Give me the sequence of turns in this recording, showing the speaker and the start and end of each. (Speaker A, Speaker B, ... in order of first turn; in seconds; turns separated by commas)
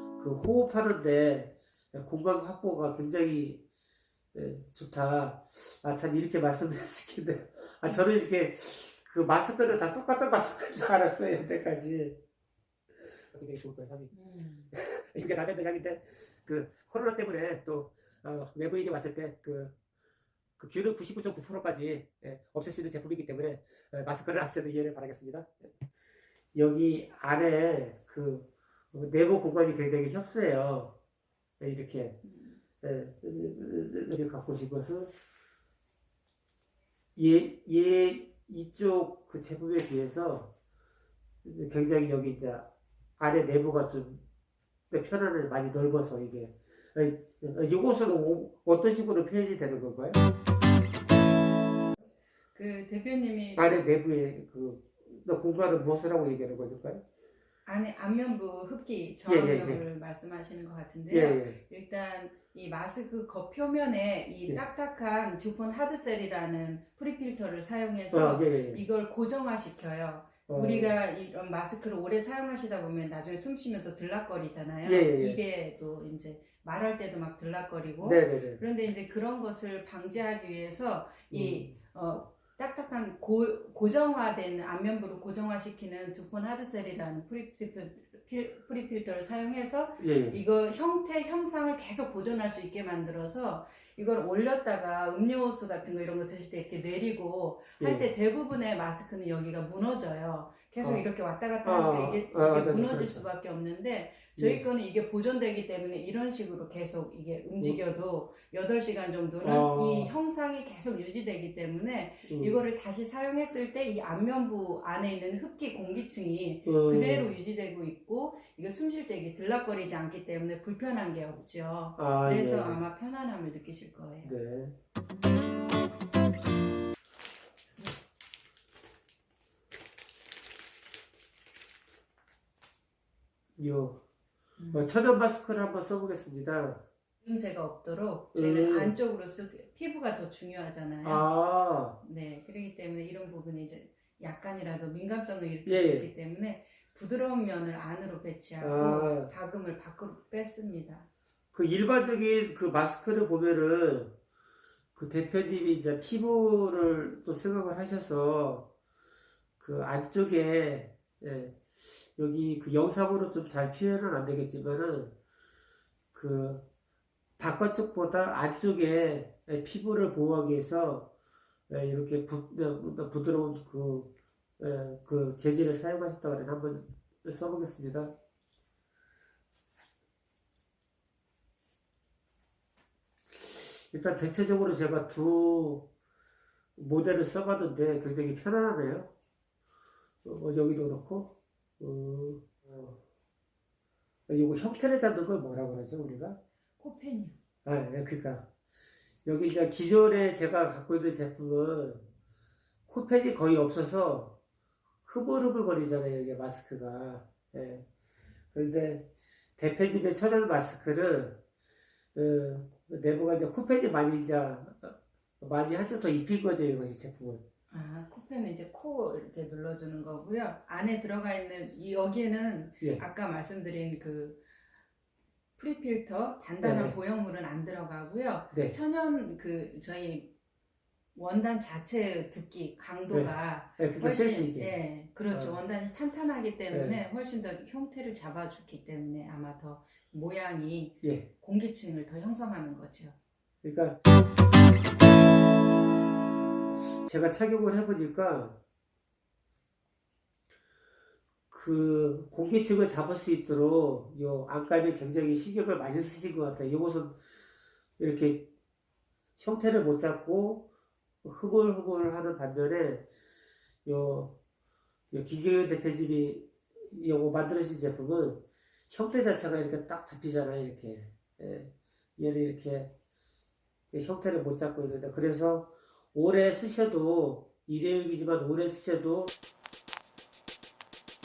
Speaker A: 0.2-3.6, Speaker A: 4.3-12.2, Speaker A: 13.3-14.1, Speaker B: 14.1-14.7, Speaker A: 14.7-19.7, Speaker A: 20.6-25.7, Speaker A: 26.5-30.9, Speaker A: 31.6-32.2, Speaker B: 32.2-32.5, Speaker A: 32.8-35.1, Speaker A: 37.2-40.5, Speaker A: 41.4-42.7, Speaker A: 43.2-44.2, Speaker A: 44.9-50.2, Speaker B: 52.5-53.8, Speaker A: 53.5-57.0, Speaker B: 57.7-124.3, Speaker A: 59.2-59.8, Speaker A: 61.1-61.6, Speaker A: 68.1-68.8, Speaker A: 70.5-70.9, Speaker A: 74.8-75.4, Speaker A: 78.0-78.6, Speaker A: 81.3-81.7, Speaker A: 90.0-90.4, Speaker A: 97.8-98.1, Speaker A: 101.6-103.3, Speaker A: 104.4-104.7, Speaker A: 109.4-110.1, Speaker A: 112.2-112.6, Speaker A: 116.7-117.3, Speaker A: 122.0-122.8, Speaker A: 124.2-124.8, Speaker A: 133.6-134.0, Speaker B: 134.6-134.9, Speaker A: 134.7-136.8, Speaker B: 137.2-141.2, Speaker A: 138.3-139.0, Speaker A: 141.0-142.0, Speaker B: 142.0-151.1, Speaker A: 145.7-146.1, Speaker A: 148.6-149.3, Speaker A: 151.5-154.2, Speaker A: 154.9-158.7, Speaker A: 159.6-165.2, Speaker A: 166.1-166.7, Speaker A: 167.4-171.1, Speaker A: 171.7-178.1, Speaker A: 183.3-185.9, Speaker A: 186.8-189.1, Speaker A: 190.2-193.0, Speaker A: 194.3-196.4, Speaker B: 196.8-197.4, Speaker A: 197.7-198.5, Speaker A: 199.2-202.1, Speaker A: 202.9-204.3, Speaker A: 205.0-207.8, Speaker A: 208.5-211.4, Speaker A: 212.2-217.4, Speaker B: 217.7-224.4, Speaker B: 225.6-230.3, Speaker A: 226.6-227.0, Speaker B: 231.2-243.2, Speaker A: 233.1-234.7, Speaker A: 235.3-235.6, Speaker A: 236.7-237.0, Speaker A: 241.0-241.3, Speaker A: 243.6-244.0, Speaker A: 246.8-248.6, Speaker A: 251.5-257.2, Speaker A: 258.0-258.5, Speaker A: 259.4-260.7, Speaker A: 261.2-263.1, Speaker A: 263.8-264.4, Speaker A: 265.1-272.9, Speaker A: 273.9-279.3